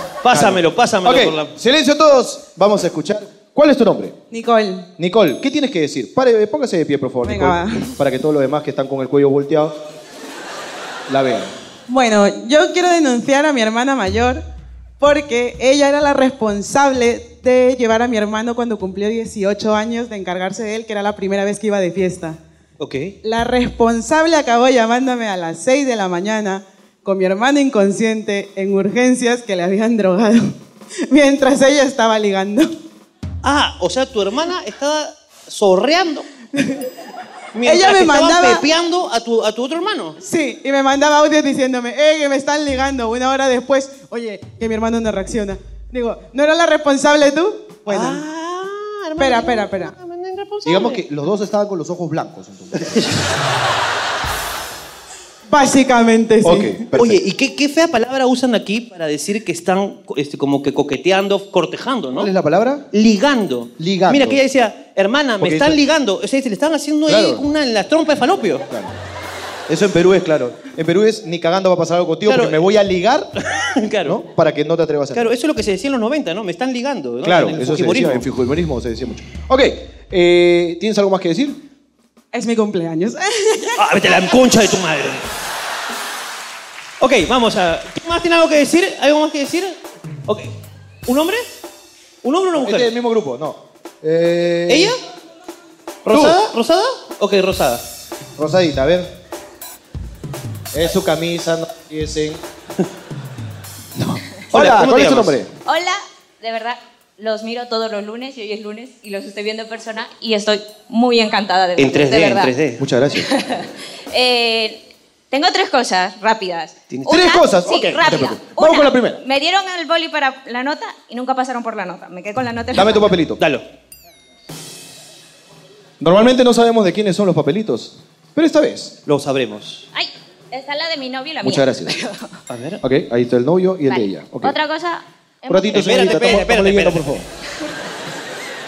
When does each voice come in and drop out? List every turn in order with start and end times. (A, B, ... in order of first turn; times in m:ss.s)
0:00.2-0:01.5 A
0:00.3-0:04.2 B
0:04.3-0:04.9 C
0:05.0-0:09.8 B
0:07.2-0:07.9 C
0:11.1-0:11.5 B
0:11.9-0:14.4 C
0:15.0-0:22.4 C
0:22.8-0:23.2 A
0:23.2-0:30.6 C
0:31.1-0:32.7 C
0:33.4-0:36.3 A
0:37.5-0:40.2 A
0:37.6-0:38.6 C
0:40.2-0:48.2 C
0:47.9-0:51.0 A
0:49.2-0:49.9 C
0:50.6-0:53.1 B
0:55.5-0:56.8 C
0:56.4-0:57.2 B
0:57.0-1:02.3 A
1:02.2-1:02.9 B
1:02.9-1:08.7 A
1:03.8-1:04.4 B
1:05.4-1:05.8 B
1:07.1-1:07.4 B
1:08.7-1:09.0 B
1:09.7-1:13.3 B
1:12.3-1:12.6 A
1:13.5-1:14.2 A
1:14.0-1:15.3 B
1:15.1-1:18.2 A
1:17.2-1:21.6 B
1:22.3-1:23.8 C
1:23.8-1:25.3 A
1:27.0-1:30.6 A
1:31.1-1:31.5 A
1:32.2-1:32.9 A
1:32.6-1:35.0 B
1:34.7-1:35.0 A
1:36.0-1:37.8 A
1:36.1-1:36.5 B
1:38.4-1:39.1 B
1:40.7-1:42.4 B
1:44.0-1:45.5 B
1:44.5-1:45.4 A
1:45.6-1:52.6 D
1:51.8-1:52.8 A
1:52.8-1:53.3 B
1:53.2-2:03.2 D
1:56.9-1:57.3 A
1:57.1-1:59.2 B
2:02.7-2:03.4 B
2:03.4-2:03.6 A
2:06.0-2:09.0 B
2:09.1-2:09.8 A
2:09.9-2:12.3 D
2:11.4-2:12.0 B
2:12.5-2:12.8 A
2:12.8-2:14.6 B
2:13.9-2:16.4 D
2:15.5-2:17.3 B
2:15.7-2:17.2 A